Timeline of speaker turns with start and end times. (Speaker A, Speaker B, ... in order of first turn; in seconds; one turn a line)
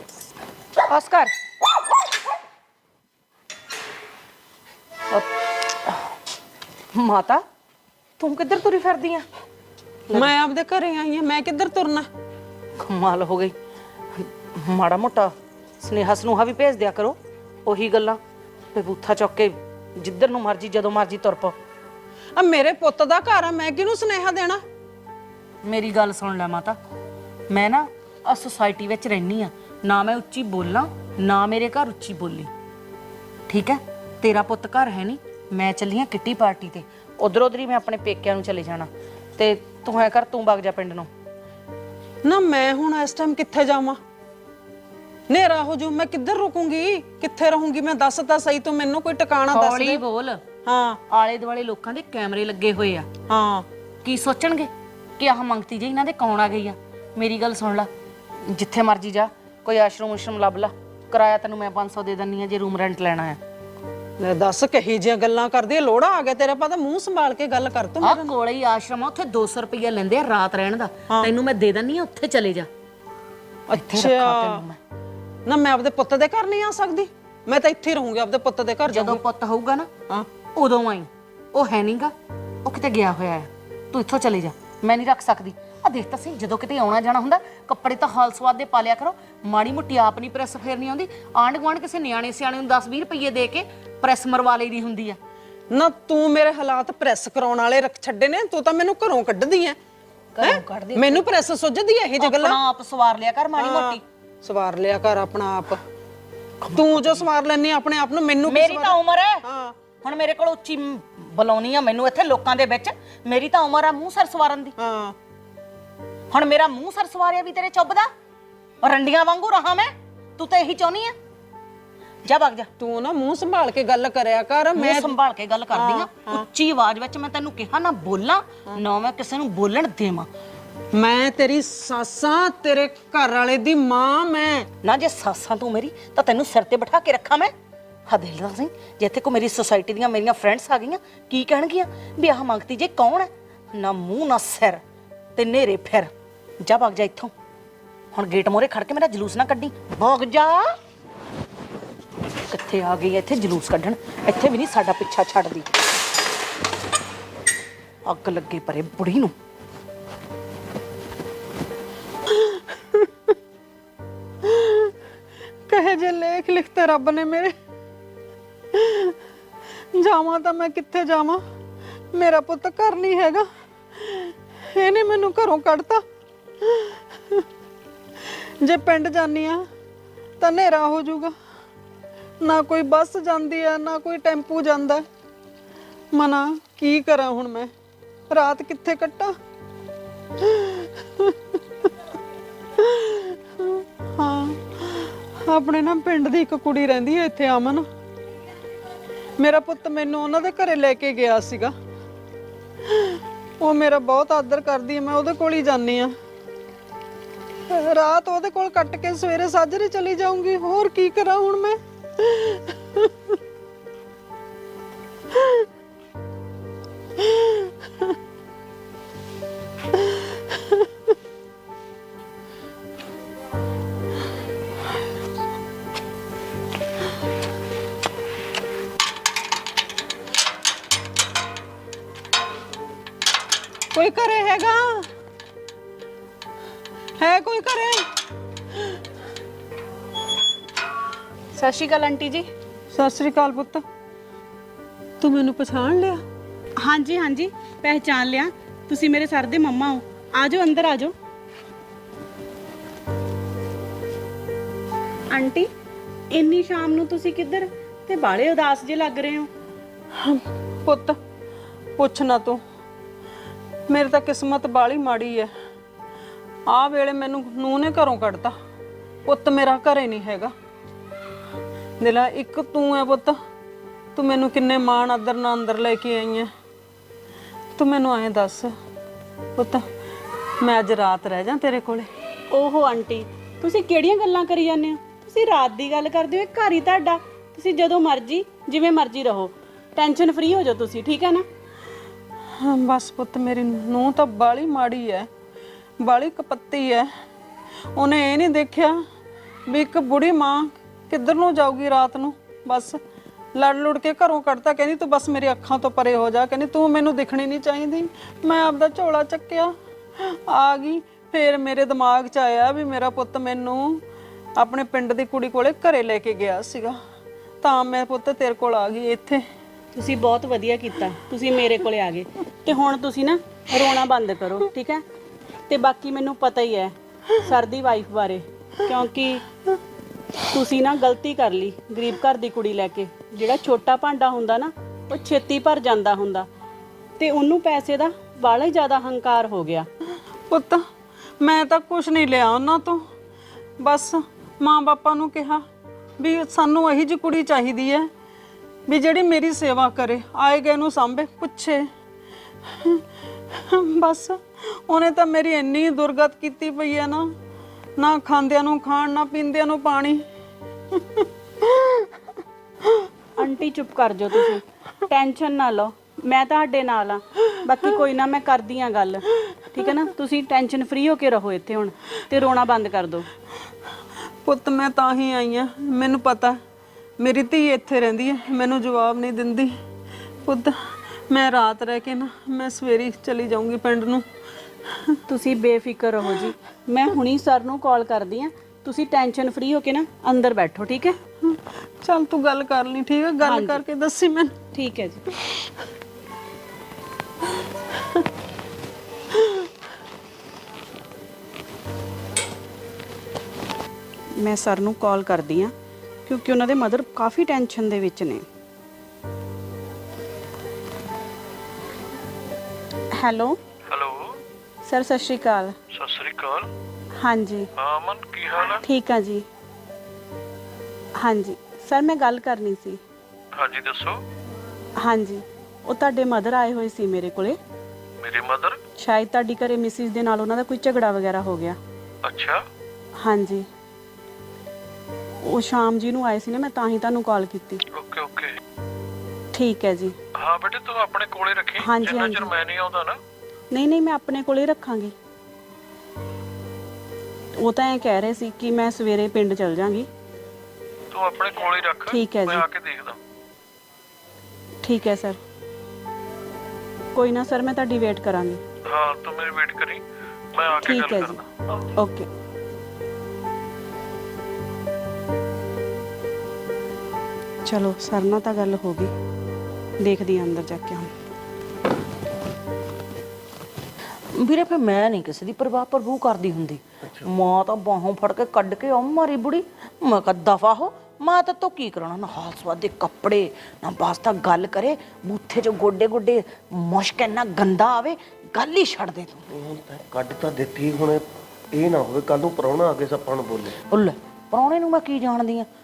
Speaker A: 0.8-1.3
Speaker A: 5.1-6.1
Speaker A: 6.9-7.4
Speaker A: 8.2-9.2
Speaker B: 10.1-12.1
Speaker A: 12.8-13.5
Speaker A: 14.1-18.2
Speaker A: 18.7-21.5
Speaker B: 22.4-24.6
Speaker A: 25.6-26.8
Speaker A: 27.5-32.5
Speaker A: 33.5-41.1
Speaker B: 42.2-44.0
Speaker B: 45.3-50.0
Speaker A: 49.5-50.4
Speaker B: 50.6-51.0
Speaker A: 51.1-53.1
Speaker B: 53.3-53.6
Speaker A: 54.0-57.9
Speaker A: 58.5-63.4
Speaker B: 64.2-68.2
Speaker A: 68.0-72.7
Speaker B: 73.7-74.6
Speaker A: 73.7-74.8
Speaker B: 75.5-79.2
Speaker A: 78.9-79.9
Speaker A: 80.4-95.2
Speaker B: 95.7-99.8
Speaker A: 100.3-101.3
Speaker B: 100.4-102.6
Speaker A: 102.2-104.0
Speaker B: 103.6-105.8
Speaker A: 106.6-107.3
Speaker B: 106.7-109.7
Speaker A: 108.5-109.4
Speaker A: 110.0-114.7
Speaker B: 114.8-115.1
Speaker A: 116.3-118.1
Speaker A: 118.8-121.1
Speaker A: 122.2-122.7
Speaker B: 122.8-125.1
Speaker A: 124.7-130.3
Speaker B: 125.7-126.4
Speaker B: 130.9-134.7
Speaker A: 134.8-137.5
Speaker A: 138.1-144.8
Speaker A: 145.3-146.1
Speaker A: 146.6-147.3
Speaker A: 148.1-150.7
Speaker A: 152.5-155.7
Speaker A: 158.0-159.3
Speaker B: 162.3-163.3
Speaker B: 164.4-164.9
Speaker B: 165.7-167.5
Speaker B: 168.7-169.2
Speaker B: 169.9-171.4
Speaker B: 172.1-176.0
Speaker B: 176.6-177.4
Speaker B: 178.2-179.6
Speaker B: 180.4-181.3
Speaker B: 182.4-185.1
Speaker B: 186.1-187.7
Speaker B: 188.3-189.4
Speaker B: 190.4-191.6
Speaker B: 192.8-197.9
Speaker B: 199.4-201.7
Speaker B: 202.9-206.1
Speaker B: 207.7-213.3
Speaker B: 215.3-215.6
Speaker B: 217.2-217.7
Speaker B: 233.9-235.1
Speaker B: 237.2-238.0
Speaker C: 241.5-242.5
Speaker B: 242.9-243.8
Speaker B: 245.2-246.2
Speaker C: 246.8-251.1
Speaker C: 255.3-255.7
Speaker C: 256.3-259.5
Speaker B: 260.1-261.2
Speaker B: 262.0-262.6
Speaker B: 263.9-265.5
Speaker B: 266.7-268.5
Speaker B: 269.2-270.5
Speaker B: 272.0-273.3
Speaker B: 274.1-276.5
Speaker B: 277.8-278.7
Speaker B: 279.6-279.9
Speaker B: 280.6-282.1
Speaker C: 282.5-291.4
Speaker B: 292.6-295.3
Speaker B: 296.0-297.1
Speaker B: 297.9-299.0
Speaker B: 299.7-303.0
Speaker B: 303.5-314.0
Speaker B: 314.6-317.0
Speaker B: 317.6-319.4
Speaker C: 319.9-325.0
Speaker C: 325.7-329.4
Speaker C: 330.4-336.5
Speaker C: 337.2-339.9
Speaker B: 340.5-340.8
Speaker B: 341.4-343.0
Speaker B: 343.8-345.6
Speaker B: 346.2-348.1
Speaker B: 348.9-351.9
Speaker B: 352.7-357.3
Speaker B: 358.0-360.2
Speaker B: 360.9-362.1
Speaker C: 363.4-373.3
Speaker B: 374.4-376.6
Speaker B: 377.2-379.8
Speaker B: 380.4-384.2
Speaker B: 384.9-385.1
Speaker C: 385.3-391.2
Speaker B: 391.4-394.5
Speaker C: 393.4-393.8
Speaker C: 394.7-395.2
Speaker B: 397.9-398.2
Speaker B: 399.3-399.7
Speaker C: 404.4-405.7
Speaker C: 406.3-408.4
Speaker C: 413.1-413.6
Speaker D: 413.9-414.3
Speaker C: 414.8-415.8
Speaker D: 415.9-416.7
Speaker C: 417.2-417.7
Speaker D: 417.8-418.8
Speaker C: 418.6-419.4
Speaker C: 421.2-423.0
Speaker D: 423.5-424.2
Speaker C: 425.0-427.6
Speaker D: 428.2-428.8
Speaker C: 429.0-431.8
Speaker D: 432.2-432.6
Speaker C: 433.2-433.6
Speaker C: 435.4-437.8
Speaker D: 437.9-438.6
Speaker C: 439.5-440.1
Speaker D: 440.4-443.2
Speaker C: 441.8-442.5
Speaker C: 443.7-445.1
Speaker C: 447.5-450.1
Speaker D: 451.1-453.2
Speaker C: 452.1-452.6
Speaker C: 454.8-455.4
Speaker C: 457.1-458.6
Speaker D: 458.9-460.0
Speaker D: 460.5-461.4
Speaker C: 460.8-461.4
Speaker C: 462.0-462.3
Speaker C: 467.6-469.1
Speaker C: 470.0-471.1
Speaker A: 474.3-489.4
Speaker E: 489.5-493.8
Speaker A: 493.9-495.7